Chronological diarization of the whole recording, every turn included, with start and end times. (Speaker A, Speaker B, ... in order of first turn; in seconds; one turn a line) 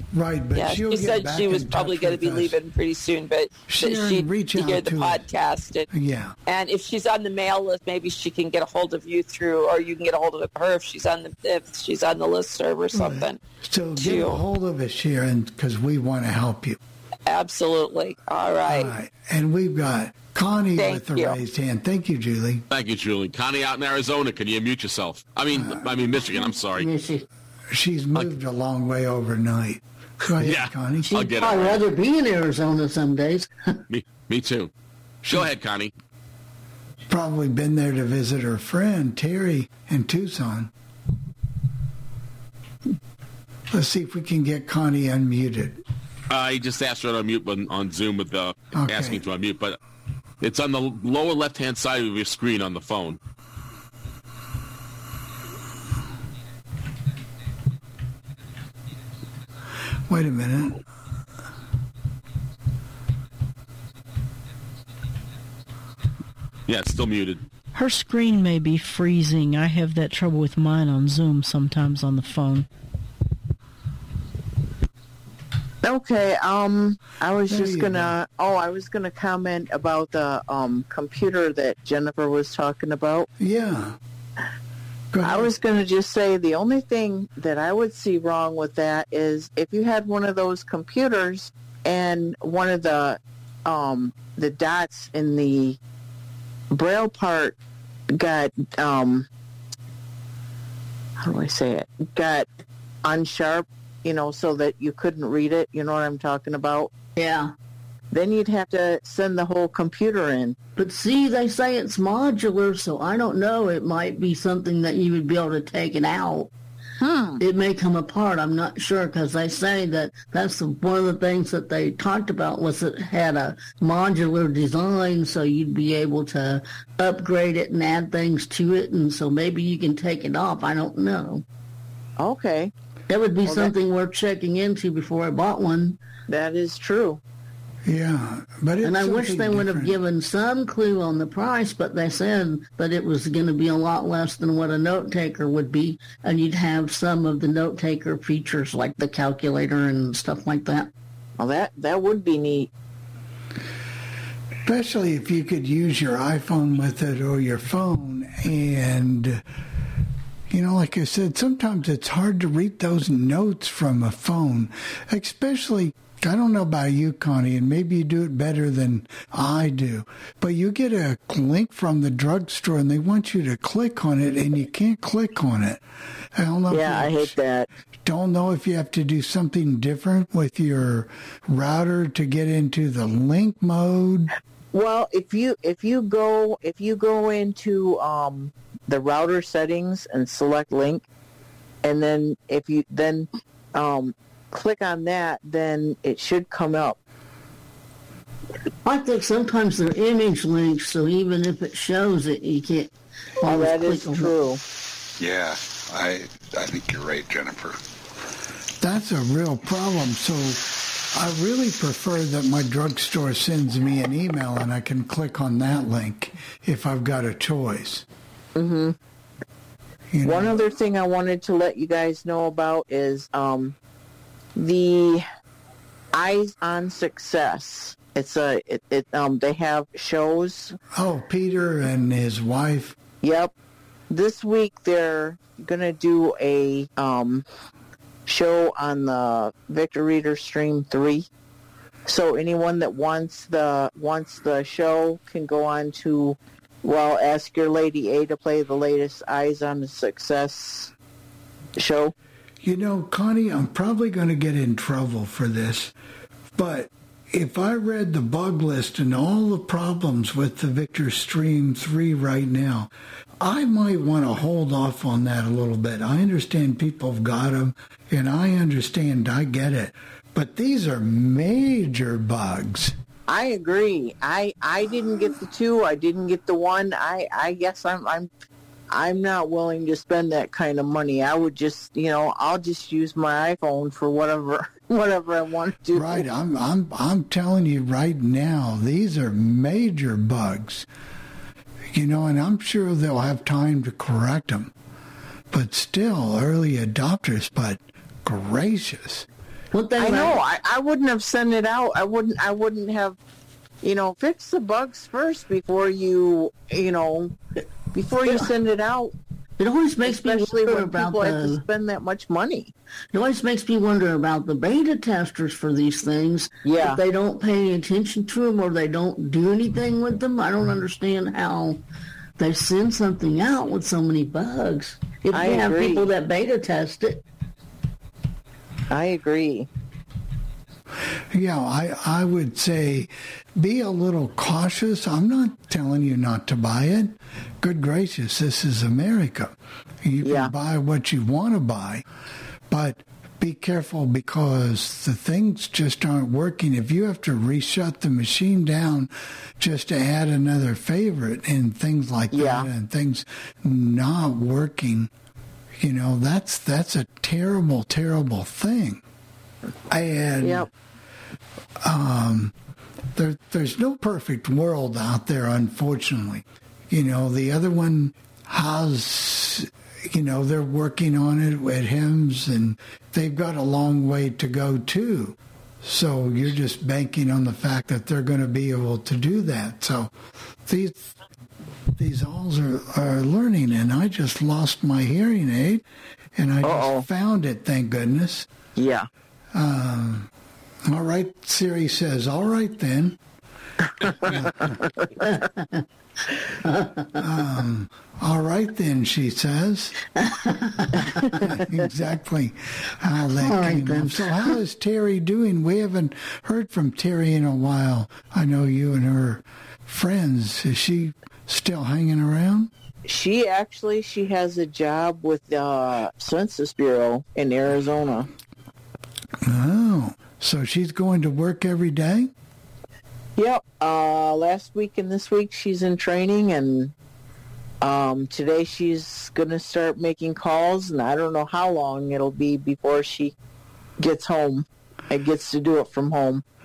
Speaker A: 0.1-2.5
Speaker B: 0.6-5.8
Speaker A: 3.7-5.2
Speaker A: 5.9-6.3
Speaker B: 6.5-13.4
Speaker A: 12.9-16.8
Speaker B: 14.0-14.4
Speaker B: 17.3-18.9
Speaker A: 18.7-22.6
Speaker B: 20.8-21.4
Speaker C: 22.7-26.9
Speaker A: 25.5-25.9
Speaker D: 26.3-27.2
Speaker A: 27.7-31.1
Speaker C: 30.4-31.8
Speaker D: 31.1-33.5
Speaker C: 33.9-34.7
Speaker A: 35.2-35.5
Speaker C: 35.3-35.9
Speaker A: 37.1-40.7
Speaker A: 43.7-45.8
Speaker C: 46.3-49.8
Speaker A: 48.7-49.2
Speaker C: 50.4-53.2
Speaker A: 60.1-60.8
Speaker C: 66.7-67.4
Speaker E: 67.7-72.7
Speaker F: 75.8-83.3
Speaker A: 77.5-78.2
Speaker A: 83.4-84.0
Speaker A: 85.1-85.5
Speaker F: 85.2-95.8
Speaker F: 96.7-97.5
Speaker F: 98.2-99.3
Speaker F: 101.2-102.5
Speaker F: 103.0-106.9
Speaker D: 107.2-107.5
Speaker F: 108.1-110.6
Speaker D: 110.8-116.5
Speaker F: 117.0-117.4
Speaker D: 117.4-131.4
Speaker F: 132.2-132.7
Speaker D: 133.1-136.0
Speaker F: 133.4-133.7
Speaker F: 136.3-137.2
Speaker A: 137.8-140.0
Speaker D: 138.8-150.9
Speaker F: 151.4-152.7
Speaker A: 154.6-159.4
Speaker A: 160.5-175.8
Speaker A: 176.3-177.4
Speaker F: 176.7-177.7
Speaker A: 178.1-184.3
Speaker F: 184.7-191.1
Speaker F: 191.8-197.0
Speaker D: 198.8-202.9
Speaker D: 203.4-204.3
Speaker F: 203.4-204.6
Speaker G: 205.2-207.8
Speaker A: 208.8-210.6
Speaker A: 211.1-218.1
Speaker F: 218.6-218.9
Speaker A: 220.1-220.6
Speaker F: 220.2-223.7
Speaker F: 224.6-225.2
Speaker F: 226.1-230.8
Speaker A: 230.9-232.9
Speaker F: 233.2-233.5
Speaker F: 234.1-237.4
Speaker F: 238.3-241.3
Speaker F: 242.1-250.9
Speaker F: 251.8-252.1
Speaker A: 252.6-255.9
Speaker A: 256.6-272.9
Speaker F: 273.3-278.3
Speaker F: 278.9-286.3
Speaker A: 285.9-290.9
Speaker A: 291.9-294.7
Speaker A: 295.5-299.3
Speaker D: 299.7-300.4
Speaker F: 300.0-303.2
Speaker F: 303.8-307.3
Speaker F: 307.9-309.1
Speaker D: 308.2-308.5
Speaker D: 309.6-311.6
Speaker F: 310.0-312.7
Speaker D: 313.1-321.8
Speaker F: 316.6-317.0
Speaker D: 322.4-327.2
Speaker F: 325.2-326.1
Speaker F: 328.9-329.7
Speaker A: 331.3-342.0
Speaker F: 340.2-340.5
Speaker A: 342.7-355.1
Speaker F: 352.3-352.7
Speaker A: 355.8-359.0
Speaker A: 359.9-360.7
Speaker F: 360.4-360.7
Speaker A: 361.8-362.5
Speaker A: 363.1-380.1
Speaker A: 380.6-381.1
Speaker A: 382.0-385.8
Speaker A: 386.4-388.5
Speaker F: 386.6-387.1
Speaker F: 388.8-389.1
Speaker A: 389.5-390.3
Speaker A: 390.9-393.2
Speaker F: 394.0-395.2
Speaker D: 395.2-395.8
Speaker D: 396.6-397.1
Speaker A: 397.2-399.9
Speaker D: 400.2-401.4
Speaker A: 401.5-412.7
Speaker D: 403.4-404.5
Speaker F: 413.1-418.3
Speaker A: 419.4-422.3
Speaker F: 423.4-426.9
Speaker F: 427.8-433.3
Speaker F: 434.0-436.4